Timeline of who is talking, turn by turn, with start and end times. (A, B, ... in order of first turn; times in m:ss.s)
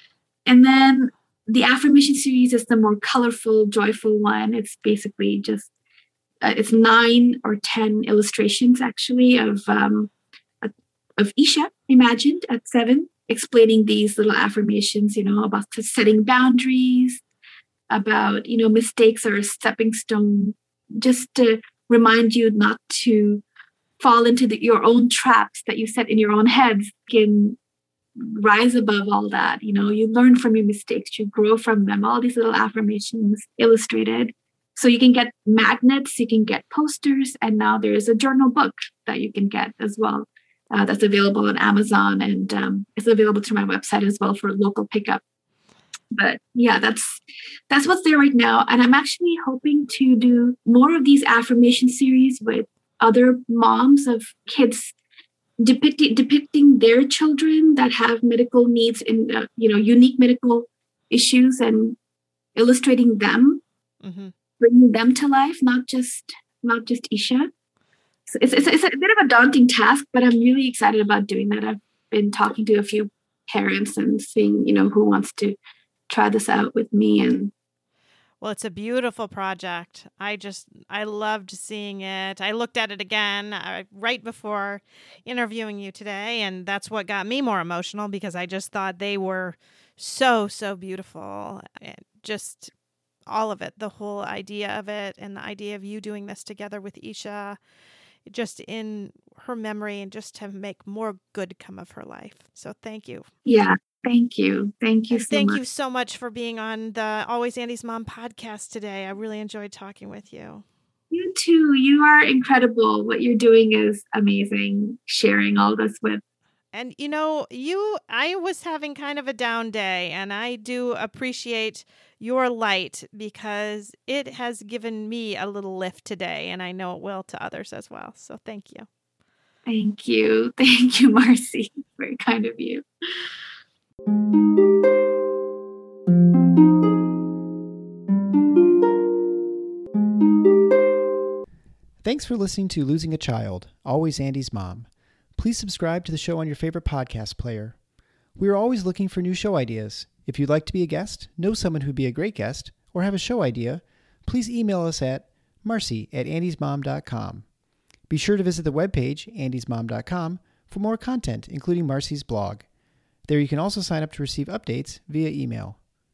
0:00.5-0:05.7 A
0:06.4-0:17.2 A
0:17.9-0:23.4 A
0:24.0-0:27.6 A
0:28.2-0:45.2 A
0:46.1-0:54.9 A
0:55.6-1:02.0 A
1:02.6-1:03.6 A
1:04.0-1:04.3 B
1:04.6-1:07.5 A
1:08.3-1:15.6 A
1:08.4-1:08.7 B
1:16.1-1:17.5 A
1:18.4-1:32.7 B
1:33.3-1:37.6 B
1:38.3-1:43.3 B
1:43.5-1:45.6 A
1:45.1-1:50.6 B
1:51.1-1:56.2 A
1:56.7-2:08.9 B
2:09.7-2:12.8 A
2:22.0-2:27.8 C
2:28.4-2:37.5 C
2:38.1-2:42.7 C
2:43.2-2:45.8 C